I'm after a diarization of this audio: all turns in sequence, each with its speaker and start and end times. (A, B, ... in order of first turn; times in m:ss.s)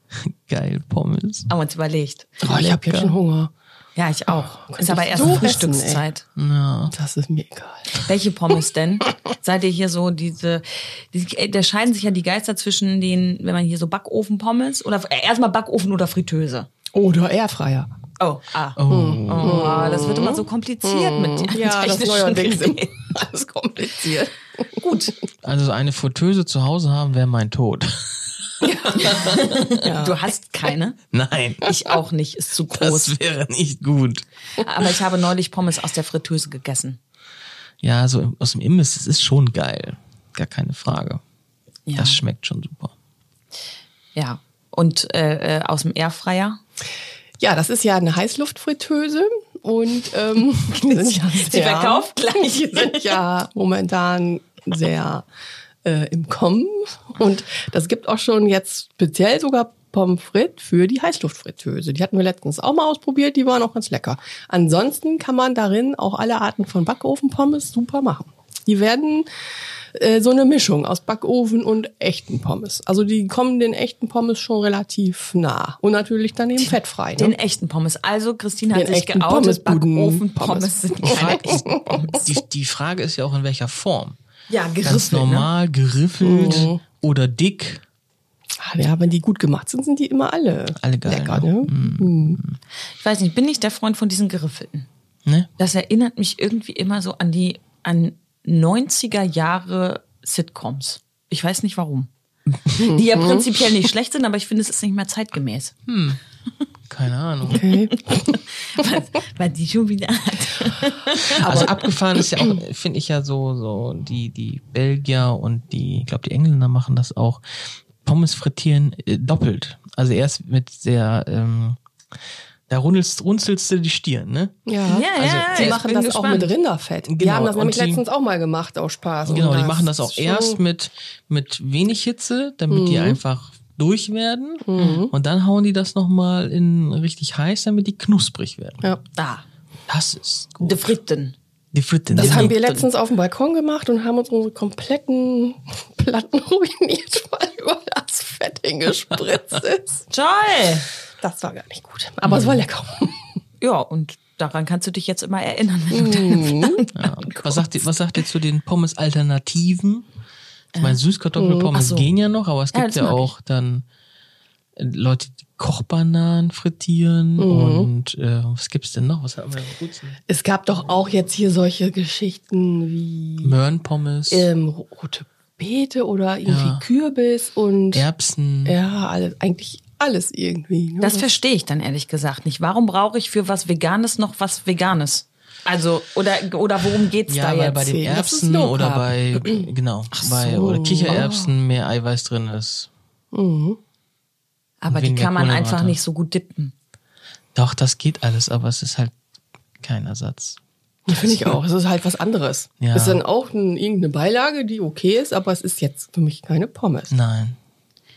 0:00.2-0:01.5 A
0:01.5-0:02.6 B
0:02.4-0:03.5 C
0:02.5-0:03.1 A
0:04.0-0:06.2 B
0:04.7-0:06.0 C
0:06.4-0:06.9 A
0:06.9-0:08.0 C
0:08.0-0:16.7 B
0:16.9-0:17.9 C
0:18.2-0:23.1 B
0:18.8-0:19.7 A
0:18.9-0:24.8 C
0:24.8-0:25.1 B
0:25.4-0:29.7 A
0:28.6-0:29.1 C
0:28.9-0:31.0 B
0:29.7-0:30.3 C
0:31.1-0:31.8 A
0:31.6-0:33.2 B
0:32.7-0:34.2 A
0:34.6-0:37.0 B
0:37.8-0:41.2 A
0:41.9-0:42.2 B
0:42.0-0:42.9 A
0:44.1-0:46.6 B
0:47.4-0:55.2 C
0:50.7-0:53.2 B
0:55.8-1:09.3 C
1:09.9-1:17.4 C
1:16.6-1:22.3 B
1:18.7-1:22.2 C
1:21.0-1:24.2 A
1:24.5-1:25.5 B
1:24.8-1:27.8 A
1:26.2-1:26.8 C
1:28.6-1:32.4 C
1:30.8-1:32.6 A
1:33.0-1:34.9 B
1:35.6-1:42.1 B
1:42.7-1:45.7 B
1:42.7-1:43.5 C
1:45.9-1:46.2 A
1:46.9-1:47.7 A
1:47.5-1:48.3 C
1:47.5-1:51.7 B
1:51.3-1:57.4 A
1:58.0-2:01.8 A
2:02.7-2:05.8 A
2:04.6-2:10.6 C
2:04.9-2:06.5 B
2:07.0-2:08.0 A
2:09.3-2:18.8 A
2:12.7-2:13.2 C
2:14.6-2:15.1 C
2:14.8-2:15.0 B
2:19.1-2:19.4 B
2:19.9-2:20.9 A
2:20.6-2:21.3 B
2:21.7-2:22.6 A
2:22.1-2:22.8 B
2:22.1-2:30.1 C
2:30.1-2:30.9 B
2:31.2-2:33.2 C
2:32.3-2:32.5 A
2:33.6-2:37.8 B
2:35.9-2:36.8 C
2:36.9-2:40.0 A
2:40.7-2:41.0 B
2:40.8-2:43.8 A
2:41.4-2:41.7 C
2:41.7-2:42.1 B
2:42.7-2:43.3 B
2:44.8-2:50.2 A
2:47.4-2:47.9 C
2:50.3-2:53.5 C
2:53.4-2:54.5 A
2:54.3-2:58.1 C
2:56.4-2:56.8 A
2:57.9-2:58.8 A
2:58.6-3:01.3 C
3:01.0-3:07.9 B
3:07.3-3:12.9 A
3:07.7-3:09.7 C
3:10.2-3:11.3 C
3:11.0-3:11.5 B
3:13.3-3:13.8 C
3:14.8-3:16.7 B
3:14.9-3:16.0 A
3:17.5-3:19.1 A
3:19.8-3:20.6 A
3:21.1-3:27.1 C
3:21.1-3:21.6 A
3:22.8-3:23.2 A
3:27.1-3:27.6 A